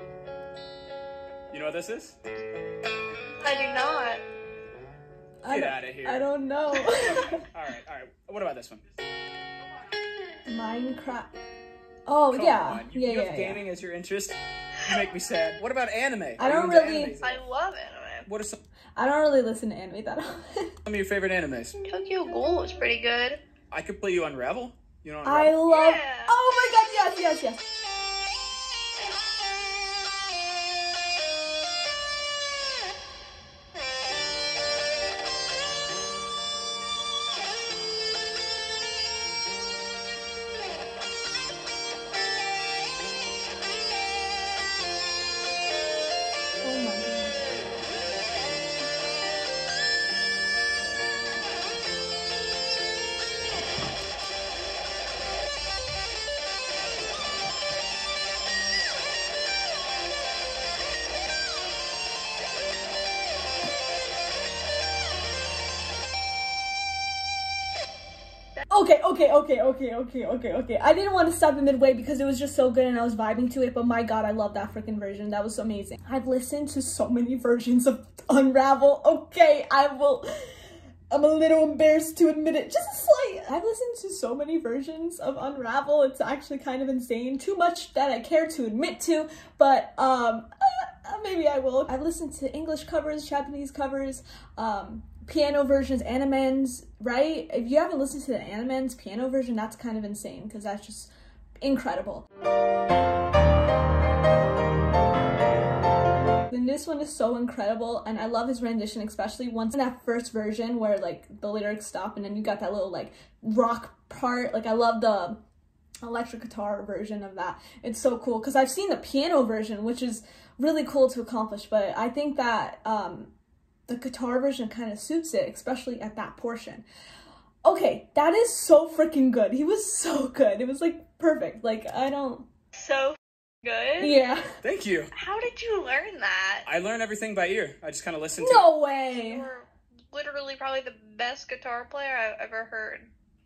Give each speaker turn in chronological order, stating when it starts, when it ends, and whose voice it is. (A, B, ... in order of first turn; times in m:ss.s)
0:01.5-0:02.2 A
0:03.4-0:04.2 B
0:05.4-0:07.4 C
0:05.5-0:06.3 A
0:07.5-0:08.8 A
0:10.5-0:11.4 C
0:12.1-0:13.6 C
0:12.3-0:17.5 A
0:16.4-0:17.1 C
0:17.2-0:18.3 B
0:18.2-0:18.6 A
0:19.0-0:20.7 C
0:20.8-0:21.8 A
0:21.8-0:23.4 B
0:23.7-0:25.6 A
0:25.2-0:27.6 C
0:25.7-0:26.3 B
0:46.6-0:47.4 C
1:08.7-1:42.3 C
1:46.5-1:55.4 C
1:56.0-2:03.3 C
2:03.9-2:06.8 C
2:07.6-2:12.5 C
2:12.8-2:14.2 B
2:14.0-2:14.4 C
2:14.6-2:15.1 A
2:15.1-2:16.6 B
2:16.6-2:18.7 A
2:18.4-2:19.5 C
2:18.9-2:23.1 B